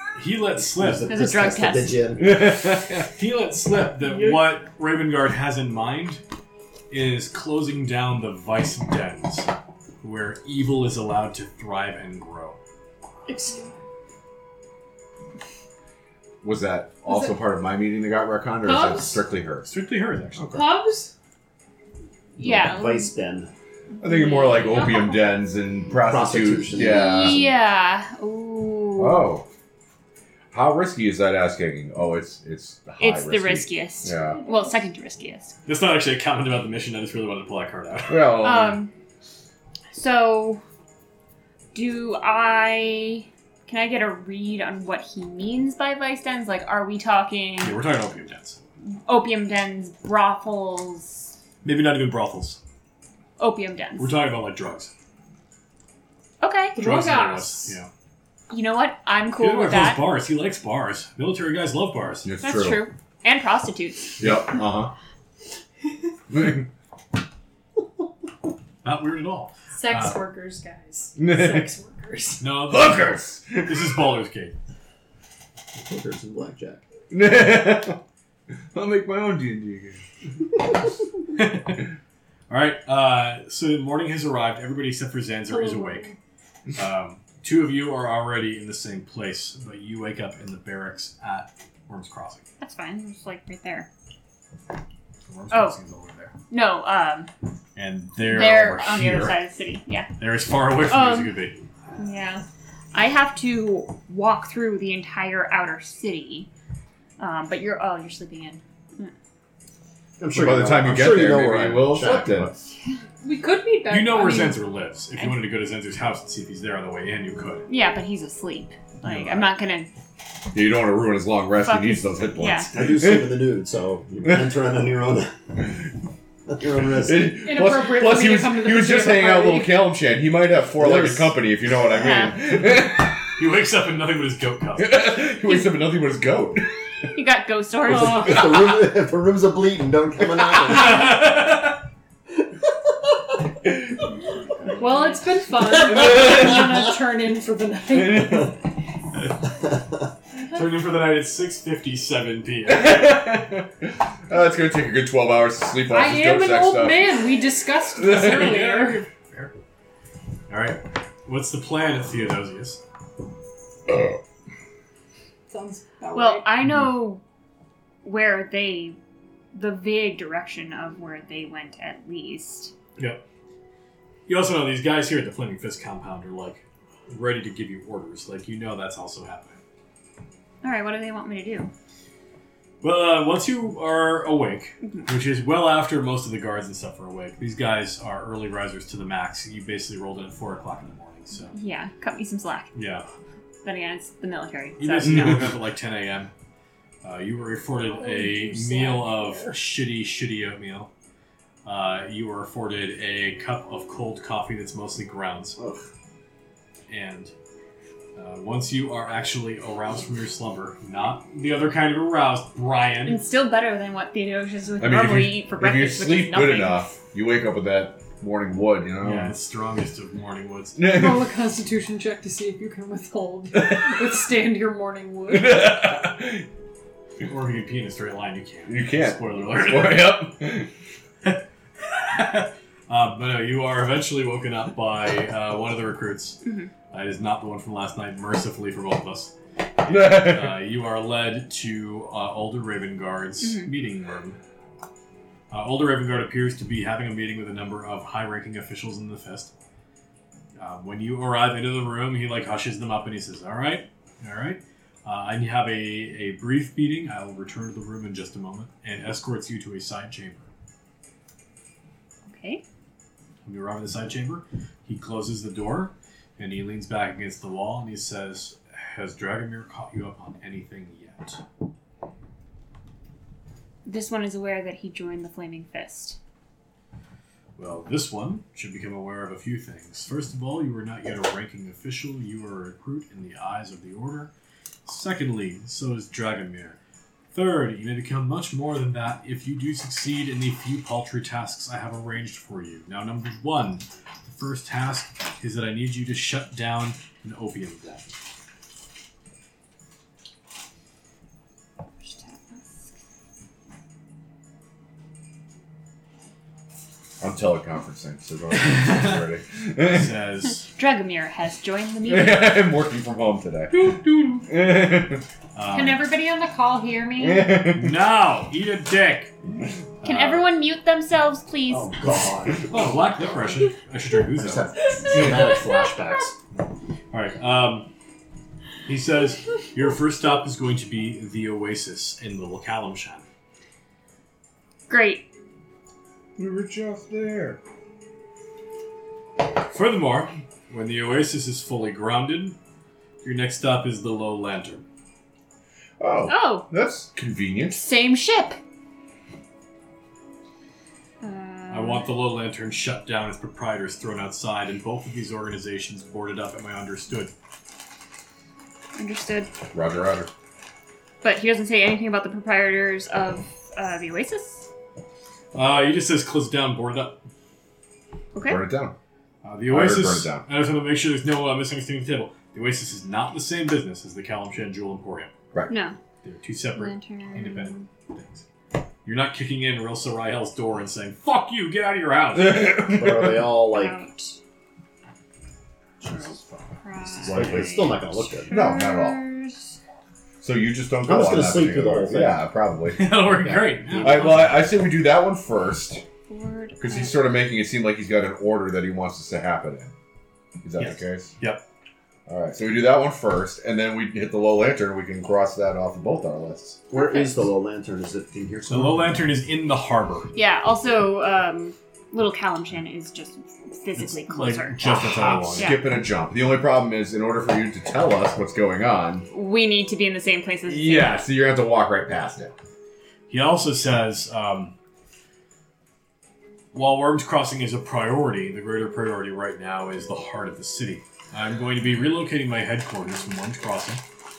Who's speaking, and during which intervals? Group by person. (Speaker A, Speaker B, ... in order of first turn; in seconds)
Speaker A: 0.1-1.1, 3.0-6.2, 6.9-9.5, 10.0-12.6, 19.6-20.6, 35.6-38.3, 47.6-48.6, 51.6-52.6, 54.0-54.9, 56.8-57.9, 59.3-62.3, 68.8-70.2, 72.4-74.5, 81.3-81.9, 82.5-86.1, 86.7-92.4, 95.3-96.3, 97.8-99.4, 100.2-101.6, 113.9-117.7, 133.3-135.0, 140.8-141.8, 150.5-153.2, 158.1-159.5, 160.5-162.8, 173.0-173.2, 174.3-179.6, 182.8-191.6, 192.7-193.1, 194.8-196.3, 197.0-200.9, 201.6-205.6, 206.9-207.3, 208.2-213.2, 219.0-220.8, 227.2-230.1, 231.2-244.4, 245.5-249.5, 250.6-260.5, 263.4-271.4, 277.6-284.3, 284.9-286.8, 287.3-298.1, 308.7-309.1, 309.8-310.7, 315.5-316.1, 317.7-319.3, 320.0-320.4, 322.7-324.7, 327.1-327.9, 328.9-333.2, 339.7-342.6, 343.2-344.8, 351.7-357.3, 365.5-367.2, 369.4-375.3, 376.2-378.4, 379.0-382.8, 392.9-394.6, 400.8-401.6, 408.7-410.3, 413.9-415.7, 423.3-424.7, 426.7-434.0
Speaker B: 0.7-2.4, 22.4-23.5, 25.9-27.5, 75.8-76.8, 110.2-112.5, 122.7-125.8, 126.5-127.3, 130.7-131.3, 137.8-141.3, 205.6-205.8, 321.7-323.5, 324.3-326.3, 382.8-384.0, 387.2-388.6, 391.0-392.4, 393.4-394.3, 406.9-409.4
Speaker C: 1.1-2.0, 22.4-23.1, 24.0-24.9, 26.7-29.3, 33.0-35.5, 38.4-38.9, 39.9-40.6, 41.7-47.8, 48.9-51.3, 53.4-54.1, 56.4-56.8, 58.5-60.1, 62.4-64.2, 92.6-93.9, 95.5-95.8, 96.5-97.3, 98.2-100.1, 100.8-101.3, 102.0-106.5, 107.2-109.1, 117.7-119.9, 121.6-122.7, 131.9-132.4, 135.2-135.8, 137.1-138.6, 166.1-167.2, 168.0-169.0, 169.5-172.7, 180.6-181.7, 191.5-192.7, 193.6-195.4, 213.0-216.9, 236.4-236.7, 243.4-243.7, 262.3-262.6, 273.8-276.2, 302.0-302.6, 310.7-312.7, 320.0-322.0, 334.9-335.3, 346.3-346.6, 347.7-348.6, 351.2-352.1, 358.9-359.5, 361.2-364.7, 368.3-368.6, 375.7-376.0, 376.7-377.9, 383.7-384.4, 386.0-389.8, 396.3-397.3, 406.9-407.5, 410.3-415.9, 419.3-421.3
Speaker D: 2.2-3.1, 16.4-19.7, 20.4-20.6, 24.0-27.5, 29.0-29.5, 30.5-34.4, 38.1-38.8, 62.2-62.8, 64.2-64.9, 66.3-66.7, 71.2-71.7, 72.7-74.0, 77.1-78.0, 78.7-80.0, 110.3-112.5, 119.0-119.5, 120.5-123.5, 127.0-133.3, 134.8-137.0, 138.2-138.5, 145.9-146.6, 148.2-148.5, 152.7-157.2, 158.0-158.6, 163.9-164.2, 195.0-195.5, 214.8-219.3, 220.8-221.2, 225.3-226.5, 228.7-230.7, 239.9-240.6, 307.2-310.1, 312.0-315.2, 317.2-318.0, 325.1-325.5, 336.4-337.6, 346.0-347.8, 359.7-360.3, 368.4-368.9, 369.7-370.4, 382.3-383.5, 387.2-387.9, 388.5-389.2, 390.4-393.2, 394.0-396.0, 396.8-399.9, 400.6-401.3, 402.3-406.8, 415.5-419.3, 420.7-422.5
Speaker E: 4.0-4.5, 13.3-13.7, 17.1-17.3, 18.6-19.2, 20.5-21.1, 24.5-25.2, 34.1-34.8, 56.7-57.8, 69.8-72.4, 85.5-86.2, 113.2-114.6, 127.4-129.8, 144.7-148.6, 155.9-159.0, 165.5-166.5, 197.8-199.6, 220.8-225.8, 313.7-314.4, 315.7-317.7